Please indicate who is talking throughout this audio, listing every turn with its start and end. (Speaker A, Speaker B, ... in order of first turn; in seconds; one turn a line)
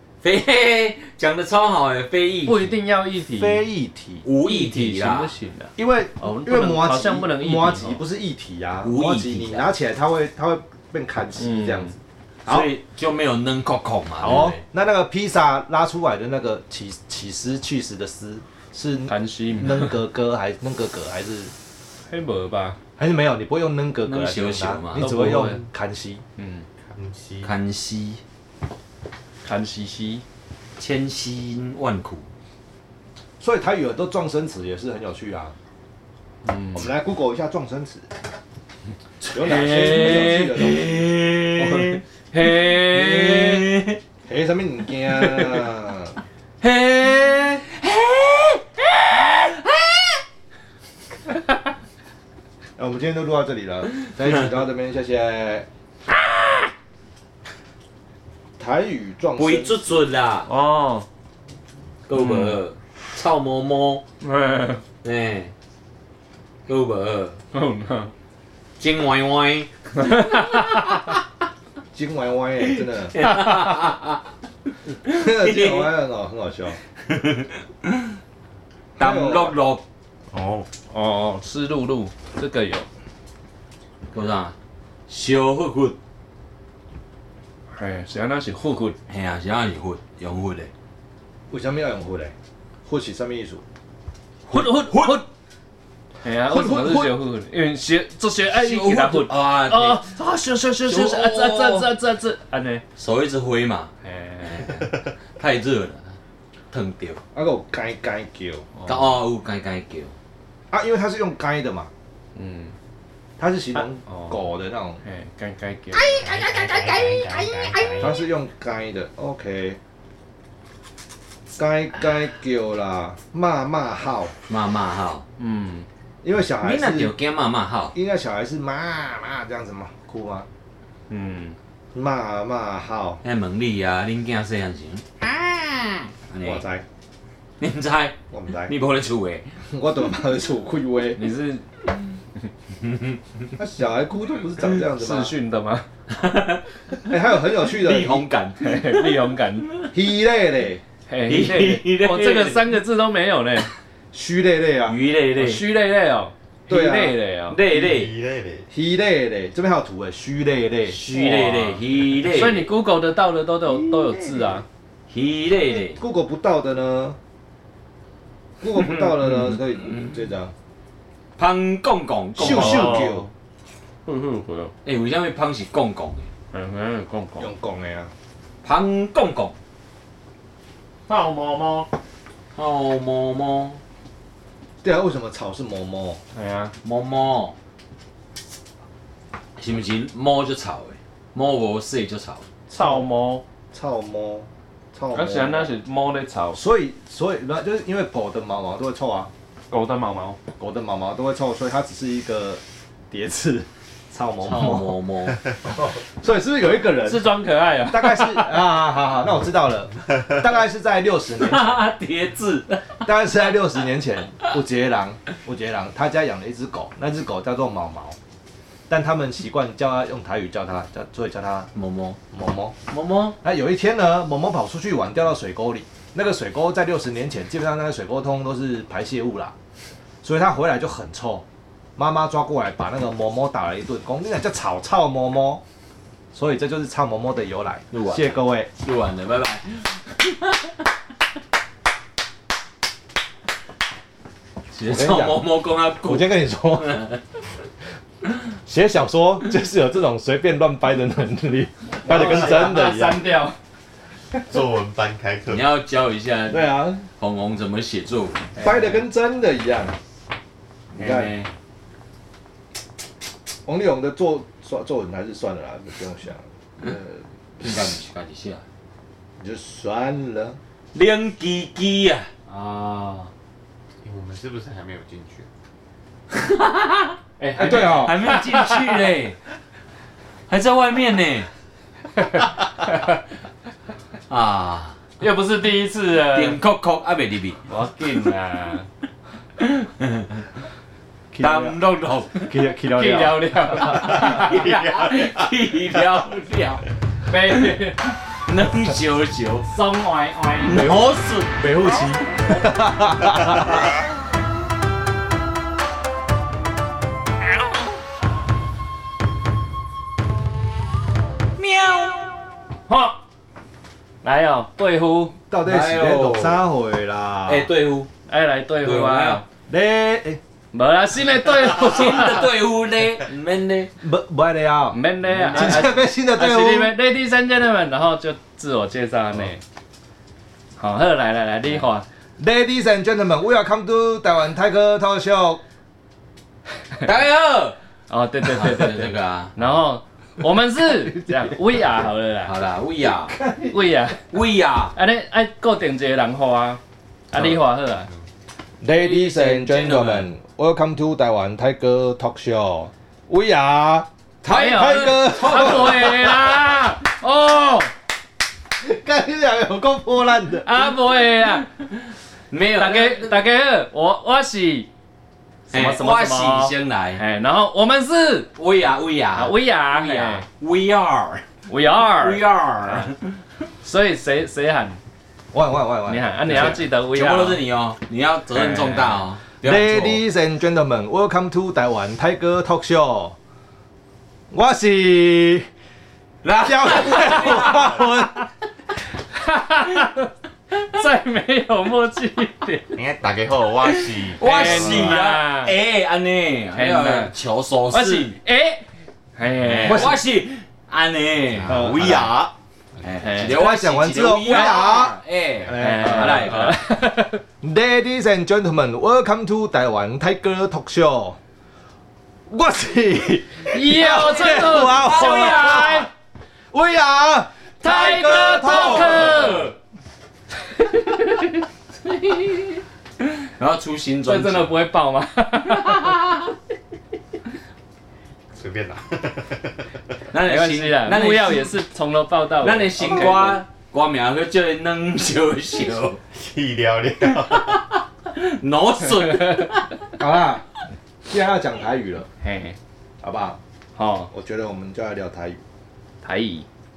Speaker A: 0.2-2.8
Speaker B: 2.5-3.6
Speaker C: 3.3-4.2
Speaker A: 4.2-5.3
Speaker B: 4.4-8.0
Speaker C: 5.8-12.7
Speaker A: 8.8-9.7
Speaker B: 11.4-11.9
Speaker A: 12.5-14.6
Speaker C: 14.2-21.5
Speaker B: 19.1-20.0
Speaker B: 22.1-22.8
Speaker C: 23.0-26.2
Speaker A: 24.1-25.1
Speaker B: 25.0-25.6
Speaker B: 26.4-26.7
Speaker D: 26.8-27.5
Speaker A: 27.4-28.2
Speaker B: 29.4-30.2
Speaker A: 30.8-32.3
Speaker C: 33.4-35.5
Speaker B: 36.5-36.9
Speaker C: 36.7-38.1
Speaker C: 39.3-41.2
Speaker B: 39.5-40.5
Speaker A: 39.5-42.0
Speaker B: 41.6-43.7
Speaker A: 42.7-44.0
Speaker C: 44.2-46.2
Speaker B: 45.2-45.6
Speaker B: 46.6-47.6
Speaker A: 47.8-48.5
Speaker C: 52.8-55.7
Speaker C: 58.6-60.1
Speaker A: 59.4-60.5
Speaker B: 60.5-61.1
Speaker A: 62.1-64.0
Speaker B: 62.2-62.6
Speaker B: 64.2-64.8
Speaker A: 65.0-65.5
Speaker A: 66.7-67.4
Speaker B: 67.5-68.1
Speaker A: 68.8-70.9
Speaker B: 70.0-70.6
Speaker C: 71.9-73.2
Speaker A: 73.1-74.2
Speaker A: 75.0-75.9
Speaker C: 75.1-76.8
Speaker A: 77.1-78.1
Speaker C: 79.0-79.6
Speaker A: 79.0-79.8
Speaker D: 80.3-80.7
Speaker B: 80.9-82.9
Speaker A: 84.1-84.5
Speaker A: 85.1-86.0
Speaker B: 87.7-89.0
Speaker A: 89.1-90.7
Speaker C: 91.5-92.3
Speaker C: 92.9-93.6
Speaker B: 94.5-95.2
Speaker A: 94.5-95.1
Speaker B: 96.2-102.8
Speaker C: 96.5-97.1
Speaker A: 98.5-100.0
Speaker A: 100.9-101.9
Speaker A: 103.0-106.1
Speaker B: 104.0-104.7
Speaker A: 106.7-107.2
Speaker C: 107.3-108.7
Speaker B: 108.8-109.1
Speaker A: 108.9-110.1
Speaker C: 110.7-111.9
Speaker B: 112.3-112.8
Speaker C: 113.4-115.0
Speaker B: 113.8-114.4
Speaker B: 115.0-116.4
Speaker A: 116.0-118.1
Speaker D: 116.8-117.4
Speaker B: 117.4-117.9
Speaker C: 118.0-119.8
Speaker C: 121.6-124.3
Speaker A: 124.5-125.2
Speaker B: 125.4-125.9
Speaker C: 126.2-127.1
Speaker A: 126.6-127.9
Speaker C: 127.9-130.5
Speaker B: 131.1-131.6
Speaker C: 131.9-133.2
Speaker A: 133.2-136.6
Speaker C: 136.4-136.8
Speaker A: 137.6-139.5
Speaker C: 138.3-138.7
Speaker C: 139.7-141.2
Speaker B: 141.2-141.7
Speaker A: 142.8-143.2
Speaker C: 143.6-145.3
Speaker B: 145.0-145.9
Speaker A: 146.1-146.6
Speaker C: 147.1-148.3
Speaker A: 147.7-149.2
Speaker B: 148.6-149.7
Speaker C: 149.9-150.8
Speaker B: 151.1-153.7
Speaker A: 151.3-152.8
Speaker C: 154.1-155.0
Speaker A: 154.9-155.7
Speaker B: 155.4-157.6
Speaker C: 156.7-157.2
Speaker A: 157.5-158.1
Speaker D: 157.7-158.7
Speaker C: 158.7-161.0
Speaker A: 160.9-162.7
Speaker B: 161.1-164.7
Speaker A: 165.1-166.0
Speaker C: 165.7-167.2
Speaker C: 168.6-170.5
Speaker A: 168.8-169.4
Speaker A: 171.4-173.0
Speaker C: 172.4-173.3
Speaker B: 172.4-173.3
Speaker B: 174.1-174.7
Speaker A: 174.8-176.3
Speaker B: 176.5-177.5
Speaker C: 177.4-178.1
Speaker A: 178.6-179.6
Speaker B: 181.1-181.9
Speaker A: 182.6-183.8
Speaker C: 184.8-186.2
Speaker B: 186.3-186.7
Speaker A: 186.8-187.6
Speaker A: 189.6-192.5
Speaker B: 192.7-193.4
Speaker C: 192.7-193.1
Speaker C: 193.7-195.7
Speaker B: 195.1-196.6
Speaker C: 196.5-199.3
Speaker B: 199.7-200.4
Speaker C: 200.6-205.0
Speaker A: 204.4-205.4
Speaker C: 205.6-211.9
Speaker B: 207.0-208.6
Speaker A: 211.4-213.0
Speaker C: 213.0-218.2
Speaker C: 218.9-221.7
Speaker A: 221.8-222.2
Speaker C: 222.3-222.8
Speaker A: 222.9-223.4
Speaker C: 223.4-229.5
Speaker C: 230.2-231.4
Speaker C: 232.0-235.6
Speaker C: 236.3-238.7
Speaker A: 237.9-240.8
Speaker A: 244.7-247.2
Speaker C: 244.8-245.4
Speaker C: 246.0-247.0
Speaker C: 248.7-253.2
Speaker B: 252.0-253.6
Speaker D: 252.2-252.6
Speaker D: 254.4-255.7
Speaker A: 255.5-258.6
Speaker C: 256.5-257.1
Speaker C: 258.6-260.0
Speaker C: 260.9-261.3
Speaker A: 260.9-261.5
Speaker C: 263.7-267.7
Speaker A: 267.6-268.6
Speaker C: 269.4-270.6
Speaker A: 270.9-273.3
Speaker D: 274.0-275.5
Speaker A: 276.3-279.4
Speaker B: 277.4-278.9
Speaker C: 277.6-278.2
Speaker A: 280.5-281.5
Speaker B: 282.2-283.1
Speaker A: 284.3-285.0
Speaker B: 285.2-286.6
Speaker A: 286.3-287.6
Speaker B: 287.7-288.9
Speaker A: 289.6-290.4
Speaker C: 291.3-291.8
Speaker A: 291.4-292.6
Speaker C: 292.4-294.2
Speaker B: 292.9-294.6
Speaker A: 293.8-296.8
Speaker D: 294.3-295.4
Speaker B: 297.3-298.2
Speaker A: 298.4-299.7
Speaker B: 299.7-301.0
Speaker A: 300.6-301.7
Speaker C: 301.6-303.9
Speaker A: 311.6-312.3
Speaker B: 312.9-313.2
Speaker B: 314.2-315.4
Speaker C: 315.5-317.7
Speaker A: 315.6-316.6
Speaker A: 317.5-318.1
Speaker B: 318.3-319.4
Speaker A: 318.8-319.4
Speaker C: 319.7-320.4
Speaker B: 320.7-322.5
Speaker A: 321.6-323.9
Speaker C: 324.0-326.9
Speaker B: 324.9-329.6
Speaker A: 325.3-325.8
Speaker B: 330.8-332.1
Speaker C: 332.4-335.6
Speaker A: 337.0-337.8
Speaker B: 338.1-342.6
Speaker A: 338.4-339.5
Speaker A: 342.4-343.4
Speaker C: 343.3-343.8
Speaker B: 343.7-344.2
Speaker A: 344.3-344.9
Speaker B: 344.9-346.8
Speaker B: 347.3-348.1
Speaker C: 348.8-356.6
Speaker A: 349.0-350.3
Speaker A: 354.4-356.3
Speaker B: 354.5-357.9
Speaker C: 358.8-360.9
Speaker B: 360.6-361.7
Speaker A: 362.5-363.4
Speaker B: 362.8-364.9
Speaker A: 365.7-367.2
Speaker B: 365.7-368.5
Speaker A: 368.6-371.5
Speaker B: 369.4-370.4
Speaker B: 371.7-373.1
Speaker A: 372.1-373.2
Speaker B: 373.8-375.0
Speaker C: 375.5-376.8
Speaker B: 376.1-377.6
Speaker A: 376.5-380.2
Speaker C: 379.6-383.4
Speaker C: 384.5-385.7
Speaker A: 386.4-388.1
Speaker C: 386.6-388.5
Speaker B: 389.3-393.0
Speaker D: 392.9-395.2
Speaker A: 393.8-398.4
Speaker B: 394.4-395.8
Speaker B: 396.8-397.3
Speaker B: 397.9-400.1
Speaker A: 399.6-402.2
Speaker C: 399.9-400.2
Speaker C: 401.7-402.3
Speaker D: 401.7-402.5
Speaker A: 403.0-406.8
Speaker B: 403.2-403.6
Speaker C: 403.4-406.8
Speaker B: 405.7-407.4
Speaker C: 407.6-411.4
Speaker C: 412.5-416.1
Speaker B: 413.7-416.1
Speaker A: 414.4-416.1
Speaker C: 416.7-419.7
Speaker B: 417.8-419.7
Speaker A: 418.4-419.7
Speaker B: 420.8-421.6
Speaker A: 422.1-422.8
Speaker A: 423.4-424.7
Speaker B: 424.3-426.2
Speaker A: 425.8-426.4
Speaker D: 428.6-429.8
Speaker A: 430.3-431.8
Speaker B: 430.4-433.6
Speaker A: 432.6-436.2
Speaker D: 436.3-437.8
Speaker A: 437.3-440.1
Speaker B: 439.3-439.6
Speaker C: 440.2-440.6
Speaker C: 441.3-442.3
Speaker B: 442.4-442.8
Speaker C: 443.2-443.6
Speaker B: 444.0-444.3
Speaker C: 444.3-445.6
Speaker B: 446.2-446.7